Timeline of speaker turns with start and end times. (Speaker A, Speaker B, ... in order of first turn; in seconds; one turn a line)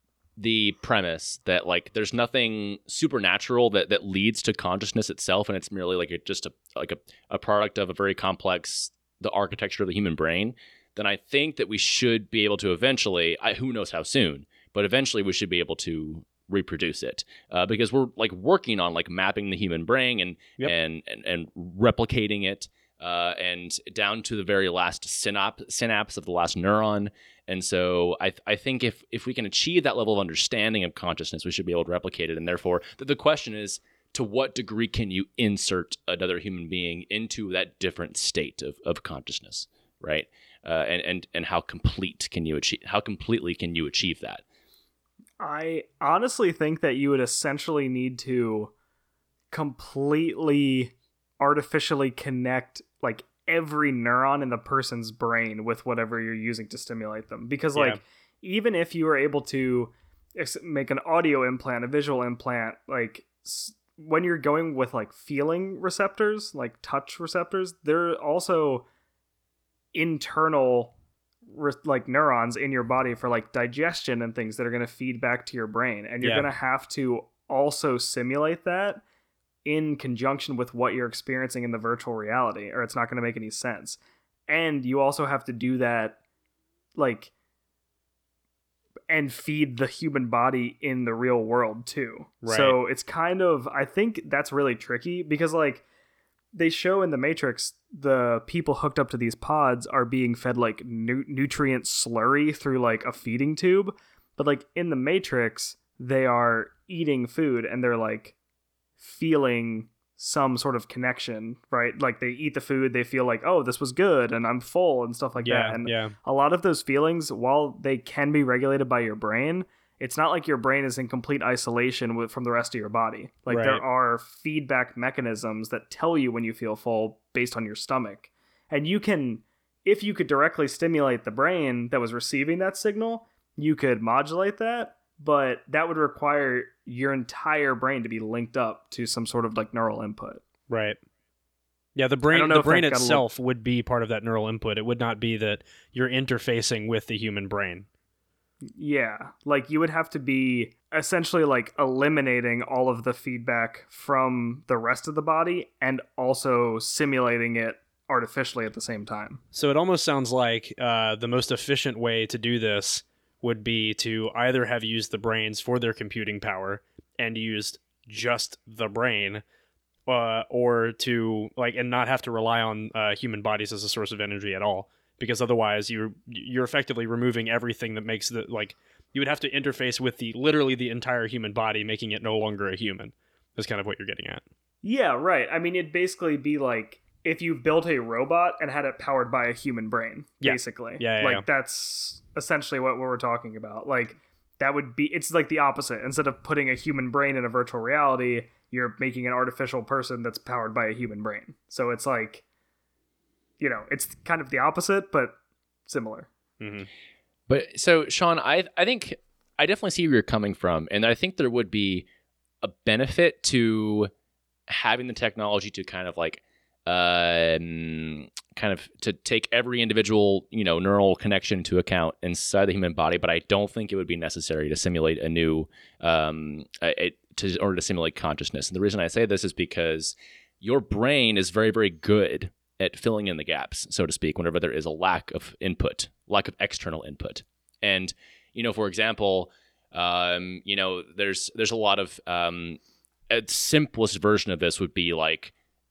Speaker A: 0.4-44.4
Speaker B: 45.4-48.7
Speaker B: 49.5-68.9
Speaker B: 69.9-71.0
Speaker B: 71.5-79.0
Speaker C: 76.2-76.5
Speaker B: 79.7-86.2
Speaker B: 87.0-87.3
Speaker B: 89.1-95.8
Speaker C: 92.4-92.8
Speaker B: 96.5-108.3
Speaker B: 109.0-140.4
Speaker C: 115.4-116.1
Speaker C: 123.5-123.8
Speaker C: 140.7-141.0
Speaker C: 142.0-147.9
Speaker B: 142.3-143.3
Speaker B: 148.8-159.4
Speaker C: 159.5-169.4
Speaker C: 170.1-184.4
Speaker B: 184.8-202.4
Speaker C: 190.4-191.4
Speaker B: 203.6-206.3
Speaker C: 206.6-206.9
Speaker A: 207.5-212.1
Speaker A: 212.6-214.1
Speaker A: 214.7-242.8
Speaker A: 243.3-245.5